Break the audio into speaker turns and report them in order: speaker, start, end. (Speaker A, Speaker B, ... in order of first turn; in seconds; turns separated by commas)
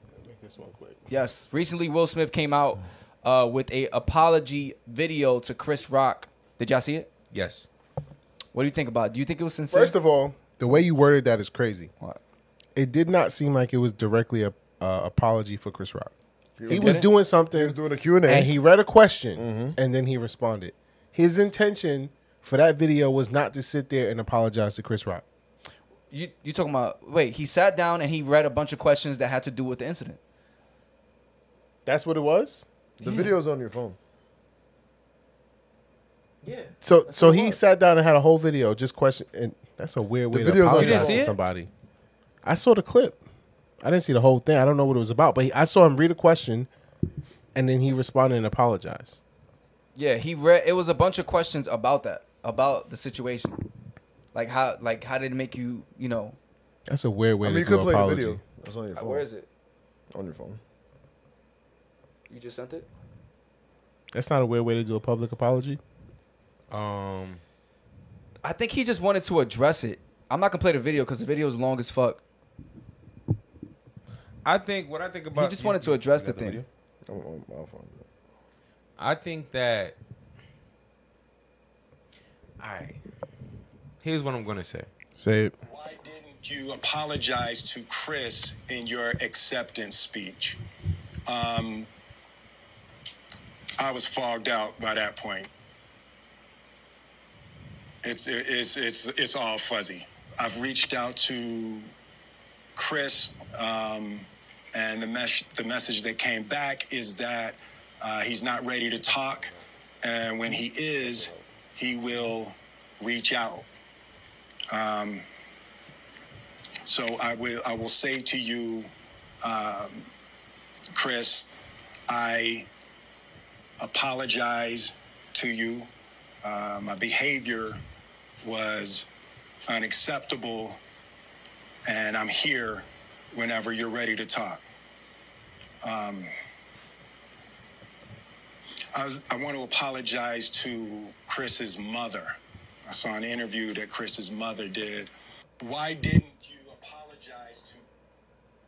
Speaker A: 0.2-1.1, Speaker B: 1.1-7.1, Speaker C: 7.3-7.7, Speaker B: 8.5-9.9, Speaker A: 9.7-11.9, Speaker A: 12.8-16.1, Speaker D: 16.6-18.5, Speaker A: 16.7-25.2, Speaker B: 16.7-17.1, Speaker D: 19.4-19.8, Speaker B: 26.1-30.2, Speaker A: 31.9-32.7, Speaker D: 33.0-34.0, Speaker B: 33.0-33.3, Speaker B: 36.4-37.6, Speaker A: 36.8-41.7, Speaker D: 40.3-41.3, Speaker C: 40.8-41.3, Speaker A: 42.4-43.2, Speaker A: 43.8-46.7, Speaker A: 47.5-49.2, Speaker B: 50.0-53.5, Speaker B: 54.3-56.4, Speaker A: 56.9-58.4, Speaker D: 57.4-59.2, Speaker B: 59.0-59.5, Speaker D: 60.1-60.6, Speaker B: 62.3-62.9, Speaker A: 64.1-65.8, Speaker C: 66.7-67.4, Speaker B: 68.4-72.2, Speaker C: 74.4-76.7, Speaker B: 75.3-76.6, Speaker D: 77.1-78.0, Speaker C: 79.0-80.0, Speaker C: 82.6-83.0, Speaker C: 84.0-84.9, Speaker A: 85.2-85.5, Speaker E: 85.6-90.6, Speaker E: 91.3-91.9, Speaker E: 93.8-95.5, Speaker E: 98.0-101.9, Speaker E: 102.8-109.5, Speaker E: 110.0-113.7, Speaker D: 111.0-111.4, Speaker E: 114.7-115.2, Speaker E: 116.8-118.9, Speaker E: 119.4-120.0, Speaker E: 120.9-121.5, Speaker E: 122.1-122.7, Speaker E: 123.8-125.9, Speaker E: 126.4-127.8, Speaker E: 128.4-129.1, Speaker E: 129.7-130.8, Speaker E: 131.8-134.6, Speaker E: 135.8-136.3, Speaker E: 138.9-142.4, Speaker E: 142.9-147.8